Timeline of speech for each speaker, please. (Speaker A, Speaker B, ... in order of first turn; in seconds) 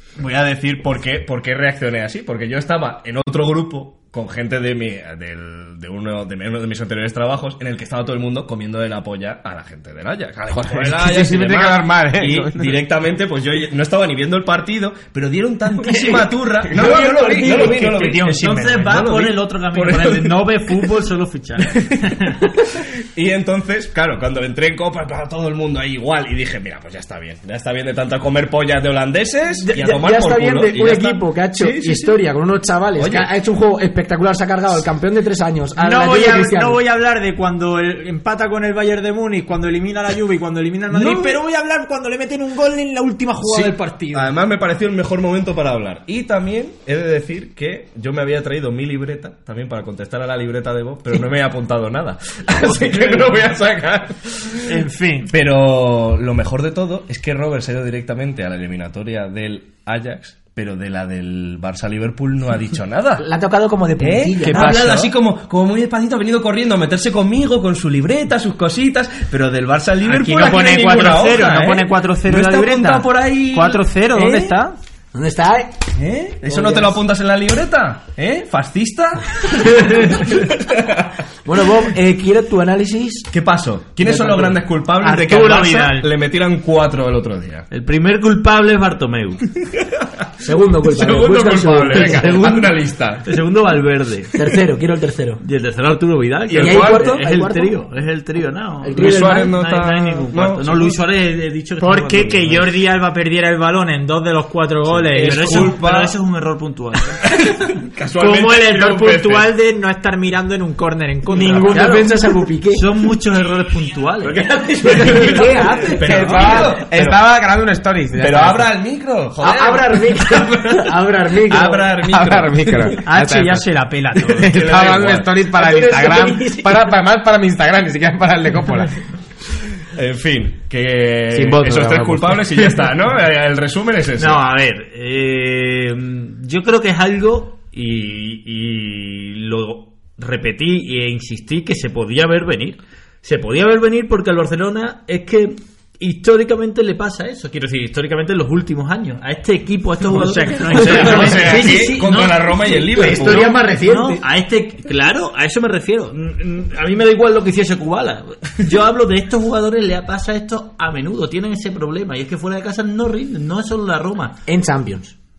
Speaker A: 0.2-20.4, 21.9-32.1, 33.0-33.3, 41.0-41.3, 43.4-63.3, 64.0-73.9, 76.0-81.1, 83.3-87.7, 89.8-90.1, 90.8-93.3, 96.5-97.2, 99.0-101.0, 105.0-106.1, 107.2-109.5, 115.0-117.2, 118.2-123.0, 124.3-125.4, 129.9-134.4, 150.7-153.6
Speaker B: 10.5-12.8, 116.0-118.7, 121.9-123.7, 124.4-128.9, 131.3-132.7
Speaker C: 16.7-18.0, 29.6-36.8, 63.2-65.1, 74.2-74.5, 75.1-77.0, 81.4-83.3, 84.0-84.6, 90.4-92.6, 94.3-95.4, 96.5-97.7, 98.8-99.5, 111.3-112.9, 114.2-116.8, 119.4-121.9, 125.5-127.0, 151.0-151.6, 152.9-154.2, 164.5-165.1
Speaker D: 17.0-18.9, 35.8-44.3, 54.7-55.3, 64.5-64.7, 70.0-74.7, 85.0-86.1, 101.8-105.8, 108.2-112.1, 115.0-116.4, 123.0-124.6, 150.1-151.7
Speaker E: 18.2-22.2, 87.7-89.5, 92.0-92.7, 93.2-94.6, 95.4-102.7, 105.1-107.2, 111.7-112.1, 112.7-114.5, 134.2-164.4